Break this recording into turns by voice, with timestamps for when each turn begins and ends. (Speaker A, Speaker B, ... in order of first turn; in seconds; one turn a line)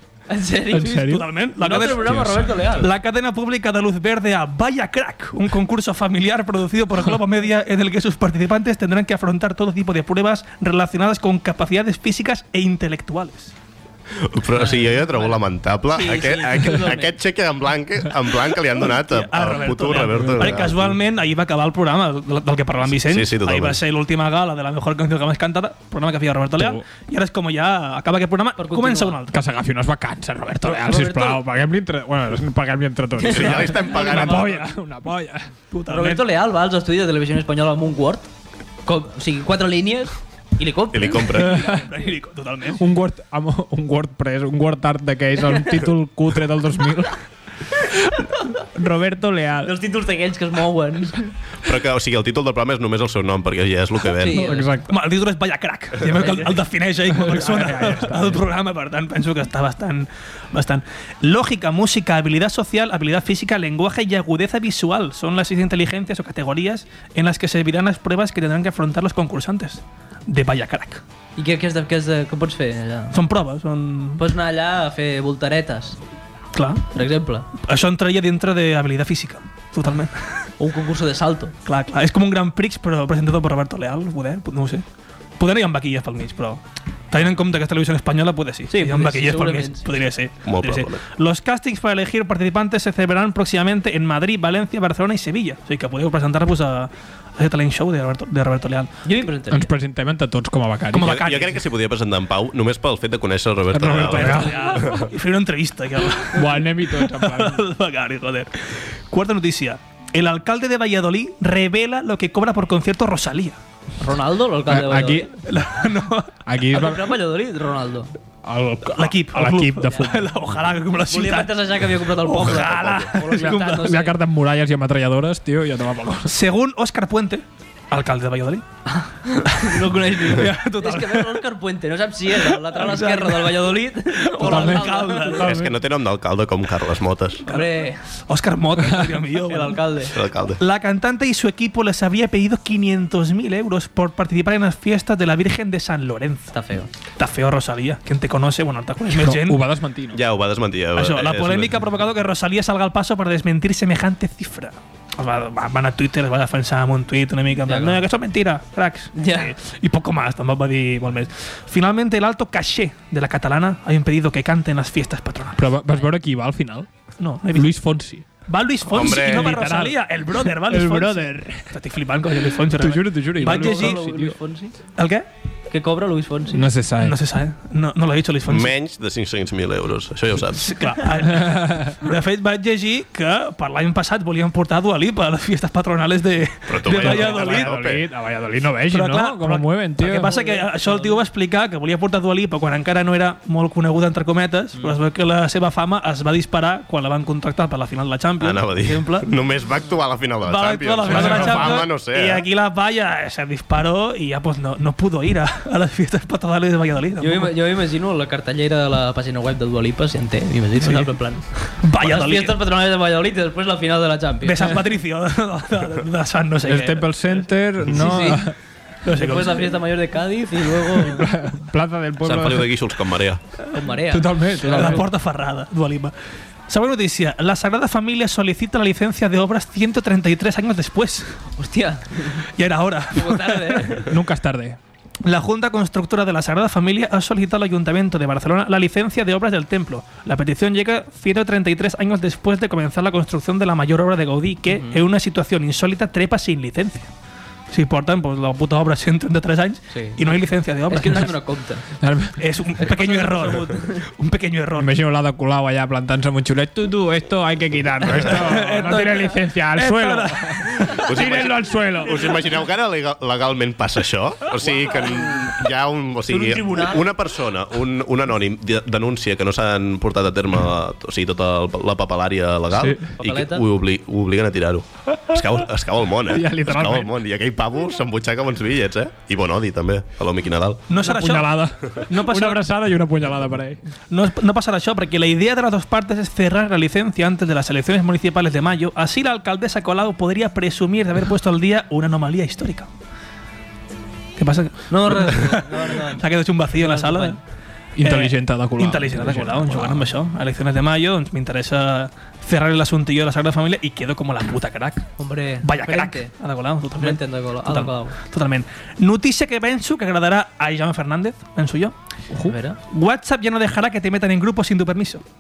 Speaker A: 0.3-1.1
Speaker B: 0.7-2.7
Speaker C: 0.8-13.5
Speaker A: 1.6-2.9
Speaker D: 14.2-21.0
Speaker A: 14.5-17.1
Speaker C: 18.8-29.4
Speaker B: 20.1-20.5
Speaker D: 23.0-23.8
Speaker B: 26.6-26.8
Speaker A: 28.6-29.2
Speaker B: 29.3-35.5
Speaker A: 30.6-31.4
Speaker A: 33.2-34.6
Speaker D: 33.2-34.6
Speaker C: 35.7-36.2
Speaker A: 35.9-38.3
Speaker A: 38.9-41.4
Speaker D: 40.9-41.7
Speaker C: 41.3-42.8
Speaker B: 41.5-41.8
Speaker B: 42.8-47.2
Speaker B: 47.8-49.7
Speaker A: 49.6-51.3
Speaker D: 51.6-54.5
Speaker A: 54.2-54.7
Speaker B: 54.3-54.9
Speaker C: 54.9-71.0
Speaker A: 56.2-56.5
Speaker B: 57.1-58.4
Speaker A: 71.4-73.2
Speaker C: 73.1-74.2
Speaker A: 74.2-76.0
Speaker C: 76.5-76.9
Speaker A: 77.0-77.5
Speaker C: 77.6-80.5
Speaker A: 80.6-81.5
Speaker C: 81.7-84.8
Speaker C: 85.4-98.9
Speaker A: 88.7-89.8
Speaker D: 90.5-91.0
Speaker A: 99.0-99.7
Speaker B: 99.5-101.2
Speaker C: 100.9-101.6
Speaker D: 101.0-105.1
Speaker B: 103.7-104.8
Speaker C: 103.9-113.6
Speaker B: 106.3-107.6
Speaker A: 114.0-115.3
Speaker B: 114.7-115.4
Speaker C: 115.5-116.4
Speaker B: 116.5-117.2
Speaker A: 116.7-118.1
Speaker B: 118.4-120.3
Speaker C: 118.9-123.9
Speaker A: 121.1-124.2
Speaker D: 122.4-123.1
Speaker B: 123.4-126.3
Speaker C: 126.3-128.7
Speaker A: 128.9-135.4
Speaker C: 129.5-131.4
Speaker C: 132.4-135.5
Speaker B: 134.4-135.8
Speaker D: 135.4-137.4
Speaker C: 137.5-146.5
Speaker A: 137.5-138.0
Speaker A: 139.5-140.1
Speaker D: 140.1-140.6
Speaker A: 146.5-146.9
Speaker C: 147.2-149.7
Speaker B: 149.2-150.2
Speaker D: 150.1-151.8
Speaker C: 151.0-165.6
Speaker A: 157.7-158.0
Speaker A: 159.2-159.5
Speaker B: 165.6-166.9
Speaker C: 167.2-167.8
Speaker B: 167.5-168.2
Speaker C: 168.5-174.0
Speaker D: 168.9-169.6
Speaker B: 168.9-171.7
Speaker B: 172.4-174.4
Speaker A: 173.4-174.7
Speaker C: 175.0-175.2
Speaker A: 175.7-176.7
Speaker B: 176.5-177.2
Speaker C: 177.0-178.7
Speaker D: 178.5-180.9
Speaker C: 180.6-187.8
Speaker B: 181.4-181.9
Speaker D: 186.7-188.1
Speaker B: 186.9-190.4
Speaker C: 188.9-198.9
Speaker A: 190.2-191.2
Speaker D: 198.4-202.5
Speaker A: 198.9-199.2
Speaker C: 200.4-207.5
Speaker B: 201.1-201.8
Speaker A: 207.2-214.7
Speaker C: 210.8-211.2
Speaker C: 211.7-212.6
Speaker C: 214.4-217.4
Speaker B: 216.7-218.6
Speaker A: 217.9-218.5
Speaker C: 219.1-219.8
Speaker A: 219.1-221.3
Speaker B: 220.9-222.7
Speaker D: 222.2-223.4
Speaker A: 223.7-225.0
Speaker B: 224.1-225.0
Speaker C: 224.6-226.1
Speaker C: 226.7-231.4
Speaker A: 231.6-232.5
Speaker C: 232.6-234.0
Speaker A: 233.1-234.1
Speaker B: 234.0-234.8
Speaker C: 235.2-247.1
Speaker A: 244.7-245.0
Speaker C: 247.7-251.4
Speaker A: 249.9-250.2
Speaker A: 250.9-251.8
Speaker B: 252.0-252.4
Speaker C: 252.4-255.0
Speaker A: 252.8-254.0
Speaker B: 254.8-262.3
Speaker C: 258.2-261.1
Speaker D: 261.0-280.8
Speaker A: 266.3-267.1
Speaker B: 272.7-273.0
Speaker A: 273.2-273.6
Speaker B: 276.3-277.1
Speaker C: 280.9-282.7
Speaker B: 281.0-283.8
Speaker C: 284.1-292.9
Speaker C: 294.4-297.4
Speaker A: 294.9-296.2
Speaker A: 296.8-297.4
Speaker B: 298.0-300.1
Speaker C: 298.0-305.1
Speaker A: 305.2-306.3
Speaker C: 305.6-311.9
Speaker A: 306.9-308.2
Speaker A: 312.4-312.8
Speaker C: 312.9-315.2